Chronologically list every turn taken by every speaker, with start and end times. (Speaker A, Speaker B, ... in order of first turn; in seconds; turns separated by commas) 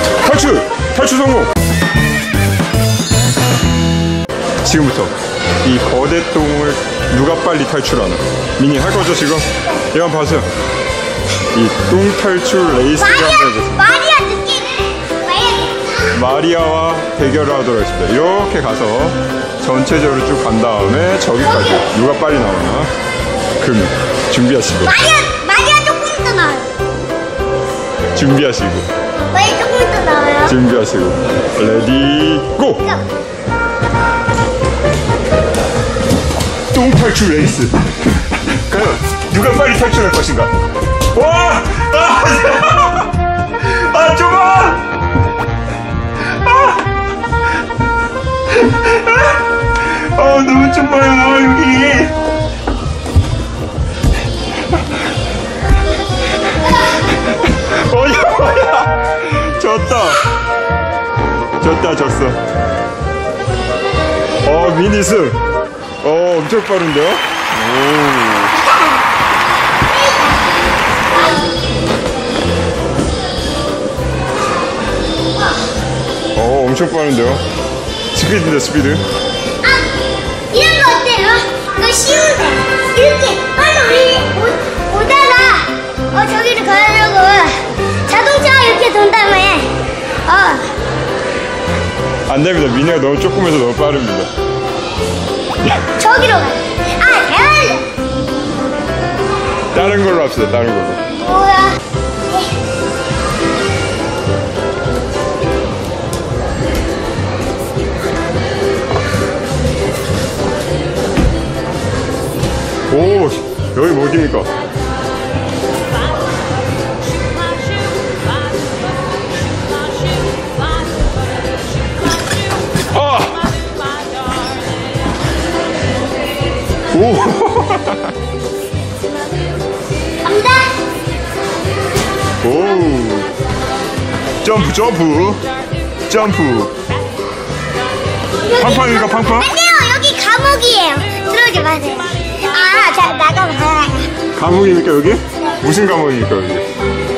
Speaker A: 0.2-1.5, Speaker A: 4.6-10.5, Speaker A: 11.5-13.9, Speaker B: 12.8-16.2, Speaker A: 16.1-22.9, Speaker B: 21.4-21.9, Speaker A: 23.6-25.0, Speaker B: 24.9-26.7, Speaker A: 28.1-28.9, Speaker B: 29.3-30.6, Speaker A: 30.4-32.9, Speaker A: 36.7-40.5, Speaker A: 41.1-44.9, Speaker A: 46.2-46.8, Speaker A: 48.5-52.1, Speaker A: 56.9-60.2, Speaker A: 61.6-62.4, Speaker A: 64.4-65.4, Speaker A: 66.0-68.6, Speaker B: 68.7-69.0, Speaker B: 69.9-70.3, Speaker A: 76.3-77.4, Speaker A: 78.1-79.0, Speaker B: 79.6-79.9, Speaker B: 80.5-89.8, Speaker B: 90.3-90.7, Speaker A: 92.3-94.3, Speaker B: 95.8-97.9, Speaker A: 99.7-101.0, Speaker B: 101.2-101.8, Speaker A: 112.9-114.5, Speaker A: 122.9-123.4, Speaker A: 126.9-128.1, Speaker B: 130.2-130.7, Speaker A: 132.4-133.3, Speaker A: 134.4-135.4, Speaker A: 136.1-136.7, Speaker B: 138.4-144.1, Speaker A: 138.6-139.5, Speaker A: 144.3-146.7